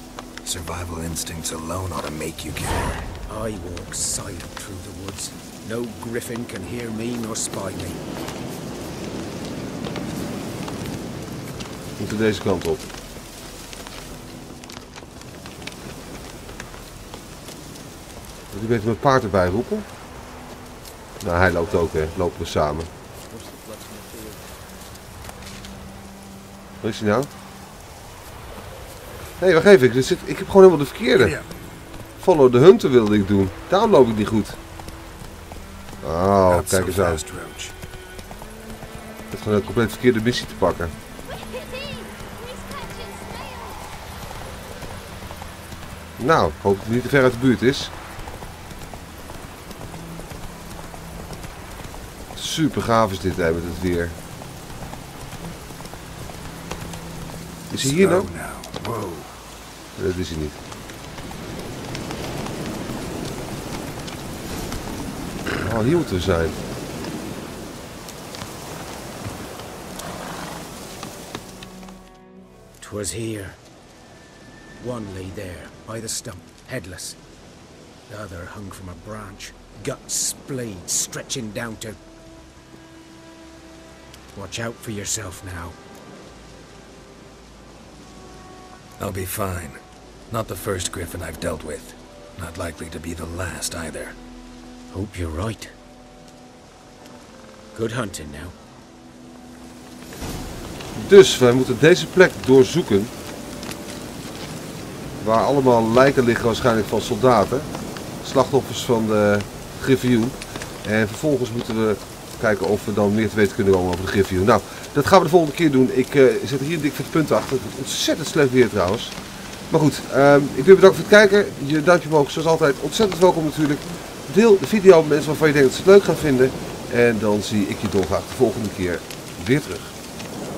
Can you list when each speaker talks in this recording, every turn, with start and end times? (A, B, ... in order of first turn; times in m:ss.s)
0:00.4-0:03.0 A
0:03.3-0:08.1 B
0:12.0-0:12.9 C
0:18.5-0:19.9 C
0:21.2-0:22.9 C
0:26.8-0:27.3 C
0:29.4-0:31.4 C
0:31.2-0:31.5 A
0:32.2-0:34.6 C
0:36.0-0:37.2 C
0:36.5-0:37.7 A
0:39.3-0:40.9 C
0:46.2-0:47.9 C
0:52.4-0:54.2 C
0:57.7-0:58.3 C
0:57.7-0:59.3 A
1:00.0-1:00.6 C
1:05.6-1:06.6 C
1:12.8-1:13.6 B
1:14.8-1:17.2 B
1:18.1-1:22.0 B
1:24.4-1:25.8 B
1:29.0-1:34.2 A
1:34.9-1:35.7 B
1:37.7-1:38.6 B
1:41.0-1:43.1 C
1:45.2-1:47.7 C
1:48.2-1:59.2 C
1:59.7-2:09.9 C